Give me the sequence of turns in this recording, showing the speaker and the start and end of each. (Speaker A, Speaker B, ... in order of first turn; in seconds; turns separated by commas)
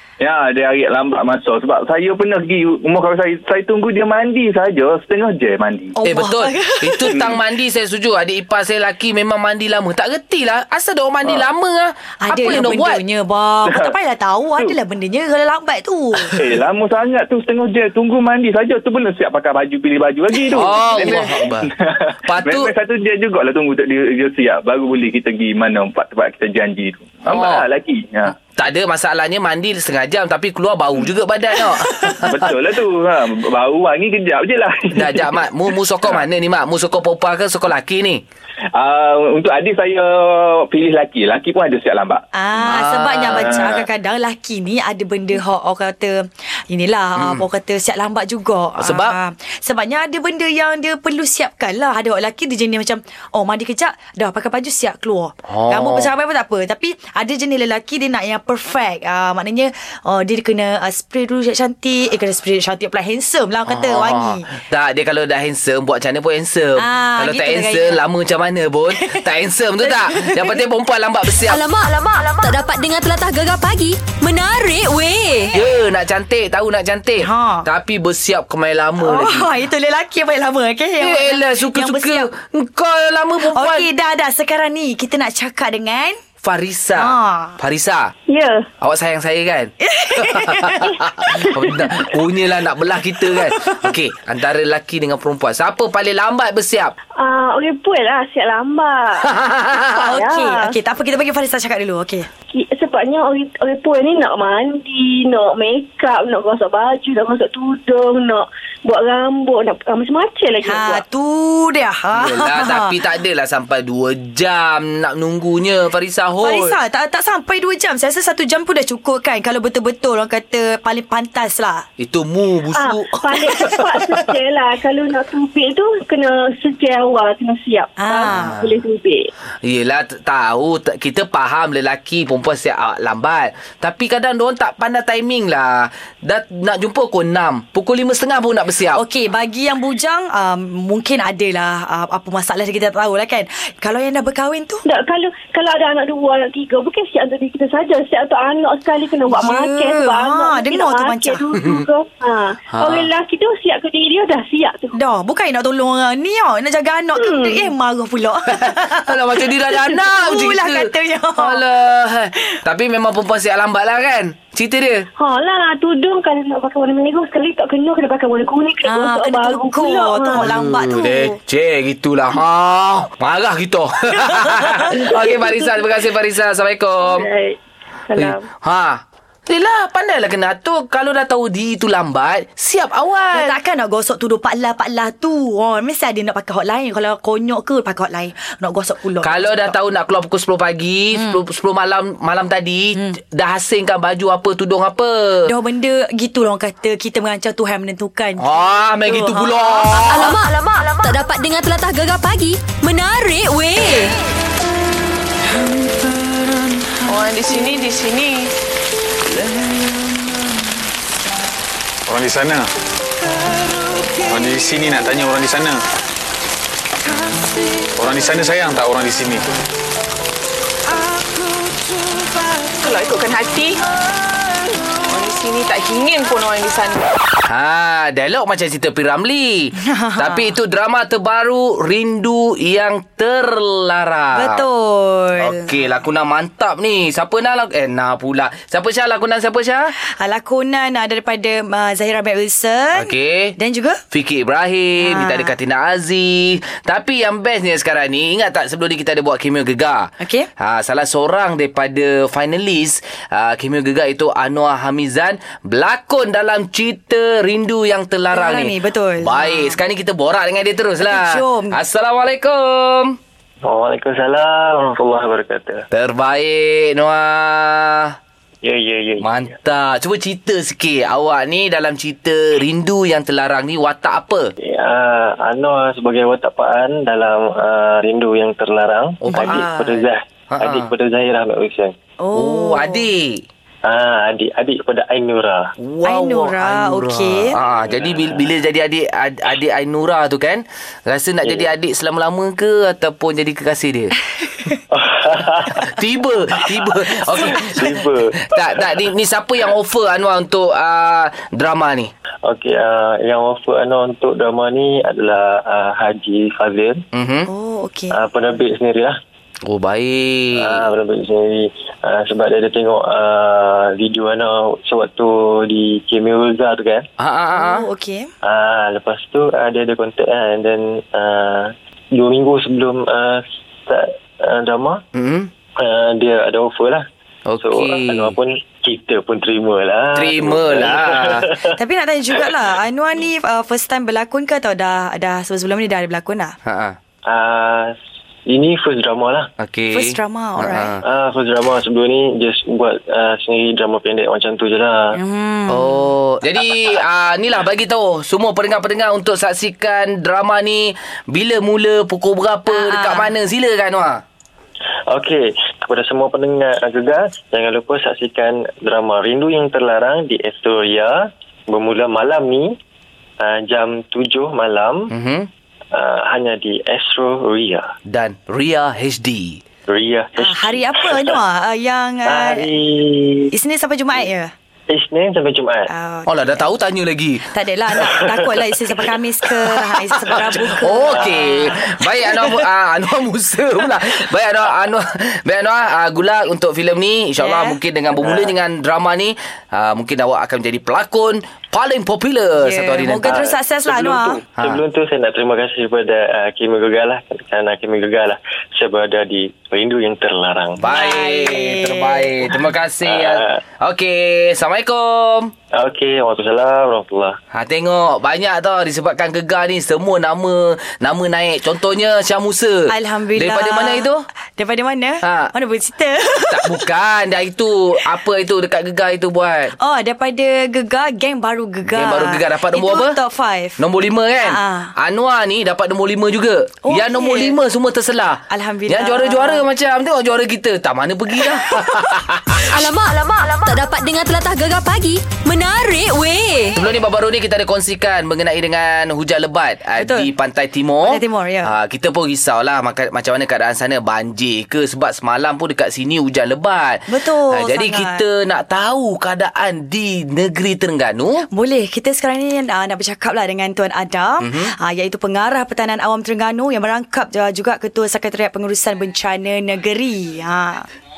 Speaker A: 0.2-5.9, Speaker B: 5.9-7.2, Speaker C: 6.0-13.0, Speaker A: 7.1-7.4, Speaker B: 12.2-16.6, Speaker A: 13.7-13.9, Speaker A: 16.4-28.3, Speaker C: 20.5-21.7, Speaker C: 22.3-22.7, Speaker C: 27.3-27.6, Speaker C: 28.6-32.5, Speaker A: 32.2-35.3, Speaker C: 34.9-38.2, Speaker A: 38.7-42.2, Speaker B: 42.3-64.5, Speaker C: 42.6-43.5, Speaker A: 43.4-43.9, Speaker C: 47.2-47.4, Speaker C: 48.8-49.2, Speaker C: 55.5-56.1, Speaker C: 63.6-71.6, Speaker B: 66.8-68.0, Speaker B: 68.9-69.3, Speaker B: 69.8-70.6, Speaker D: 71.5-75.5, Speaker C: 75.5-79.5, Speaker B: 77.2-77.7, Speaker B: 79.0-82.3, Speaker C: 81.0-83.9, Speaker B: 83.5-86.2, Speaker C: 86.4-88.1, Speaker B: 87.0-87.6, Speaker E: 88.3-88.7, Speaker C: 88.8-96.9, Speaker B: 89.8-91.0, Speaker E: 97.2-99.3, Speaker C: 99.2-100.1, Speaker E: 99.9-100.7, Speaker B: 100.0-102.3, Speaker E: 102.5-111.0, Speaker B: 110.6-113.0, Speaker C: 112.1-116.8, Speaker B: 116.4-121.8, Speaker C: 122.0-124.0, Speaker E: 122.7-129.3, Speaker B: 128.0-128.6, Speaker C: 128.2-128.7, Speaker C: 129.6-139.0, Speaker B: 138.9-144.8, Speaker E: 144.8-154.9, Speaker B: 149.3-151.4, Speaker C: 152.8-153.1, Speaker B: 154.9-161.6, Speaker E: 157.2-157.7, Speaker C: 158.5-165.1, Speaker E: 165.2-170.5, Speaker B: 168.8-171.4, Speaker C: 170.3-177.3, Speaker B: 174.3-174.8, Speaker E: 175.1-175.8, Speaker E: 177.0-178.4, Speaker C: 178.1-183.6, Speaker B: 183.3-189.8, Speaker C: 189.2-195.5, Speaker B: 191.1-191.4, Speaker B: 195.4-200.1, Speaker C: 198.4-200.4, Speaker D: 200.1-204.1, Speaker F: 207.1-208.5, Speaker G: 212.1-212.7, Speaker G: 214.2-215.8, Speaker G: 217.9-219.5, Speaker F: 222.4-223.8, Speaker F: 225.1-227.0, Speaker C: 227.5-234.6, Speaker B: 229.9-230.5, Speaker B: 234.3-235.7, Speaker C: 235.3-239.9, Speaker B: 240.1-244.0, Speaker C: 242.9-243.6, Speaker C: 244.1-263.2, Speaker B: 245.0-245.5, Speaker B: 250.2-250.5, Speaker B: 258.3-259.8, Speaker B: 261.0-261.8, Speaker H: 263.6-265.8, Speaker C: 265.9-268.1, Speaker H: 268.6-269.3, Speaker C: 269.2-274.5, Speaker H: 274.6-281.9, Speaker C: 279.2-280.9, Speaker B: 279.3-279.6, Speaker B: 282.2-283.1, Speaker C: 282.3-283.4, Speaker H: 283.8-285.7, Speaker C: 285.8-294.1, Speaker B: 286.0-287.6, Speaker H: 287.8-288.4, Speaker H: 291.4-291.7, Speaker H: 294.9-295.9, Speaker C: 295.8-302.1, Speaker H: 296.6-298.4, Speaker H: 302.4-307.0, Speaker C: 307.1-307.5, Speaker B: 307.5-308.2, Speaker H: 308.1-309.1, Speaker C: 309.6-310.9, Speaker H: 310.6-317.1, Speaker C: 317.2-317.9, Speaker B: 317.5-318.3, Speaker H: 318.4-325.0, Speaker C: 325.1-325.5, Speaker H: 325.8-327.0, Speaker C: 327.4-328.4, Speaker H: 327.6-331.7, Speaker C: 330.1-331.5, Speaker B: 331.8-336.5, Speaker C: 336.6-337.0, Speaker H: 337.2-337.9, Speaker H: 338.4-339.5, Speaker C: 339.6-341.0, Speaker B: 339.9-340.9, Speaker H: 341.0-345.2, Speaker B: 345.1-346.1, Speaker C: 345.7-354.2, Speaker B: 352.7-353.3, Speaker H: 355.1-362.7, Speaker H: 363.4-365.1, Speaker C: 365.1-365.5, Speaker H: 365.9-367.9, Speaker C: 368.1-369.6, Speaker H: 369.9-371.4, Speaker B: 370.4-372.7, Speaker H: 372.2-373.5, Speaker B: 373.5-374.5, Speaker H: 374.9-375.9, Speaker B: 375.9-376.7, Speaker C: 376.3-377.4, Speaker B: 377.4-381.7, Speaker H: 378.0-379.1, Speaker H: 379.8-380.6, Speaker C: 380.6-393.4, Speaker H: 381.1-381.5, Speaker B: 387.4-387.8, Speaker H: 388.2-388.6, Speaker B: 392.6-394.4, Speaker H: 393.2-400.8, Speaker C: 400.8-405.5, Speaker B: 400.9-402.3, Speaker H: 403.0-403.6, Speaker H: 405.7-407.4, Speaker C: 407.5-414.2, Speaker B: 412.9-416.8, Speaker C: 415.2-415.5, Speaker C: 416.5-419.7, Speaker B: 419.8-423.8, Speaker C: 421.8-423.2, Speaker C: 423.8-432.9, Speaker B: 424.4-424.9, Speaker B: 426.9-427.6, Speaker B: 428.5-429.6, Speaker D: 432.7-436.8, Speaker C: 436.8-451.4, Speaker B: 440.0-440.3, Speaker B: 441.0-441.7, Speaker B: 447.1-448.2, Speaker B: 451.5-460.9, Speaker C: 454.4-454.7